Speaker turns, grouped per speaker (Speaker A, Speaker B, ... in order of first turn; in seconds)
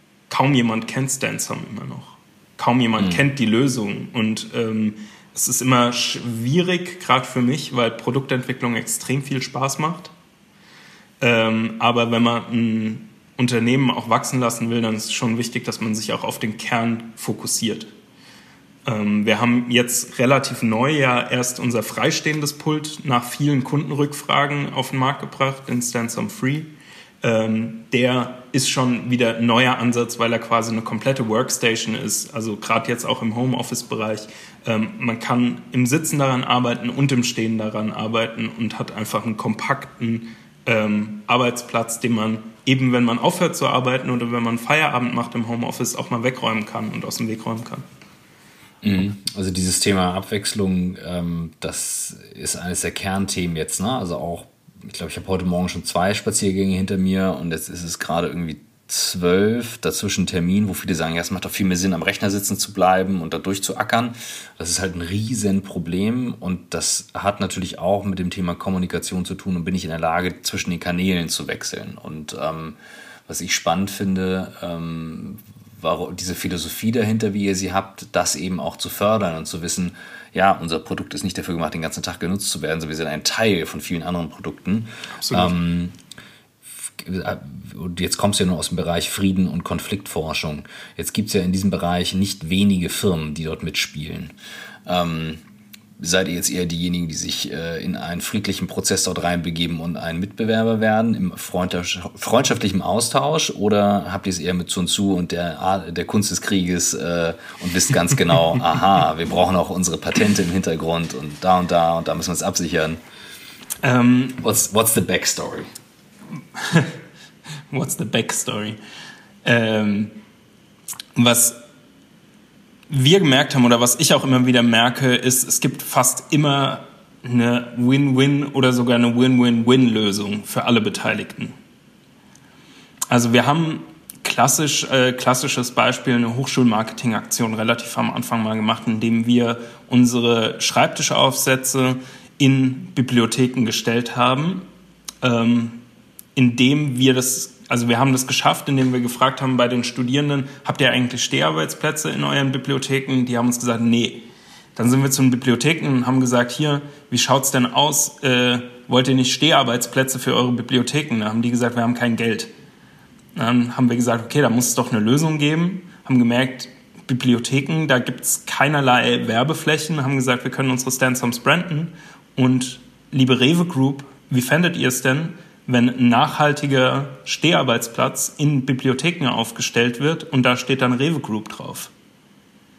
Speaker A: 0.3-10.1, 11.2-17.9, 18.9-26.7, 27.2-47.8, 85.2-85.5, 113.8-114.4, 116.5-116.9, 117.7-118.8, 119.4-120.1, 121.2-121.5, 122.9-131.6, 133.1-144.6, 145.2-145.8, 146.4-154.2, 154.8-162.5, 163.3-181.9
Speaker B: 3.0-3.2, 48.8-86.0, 86.8-94.3, 94.9-95.4, 96.0-113.0, 114.4-115.7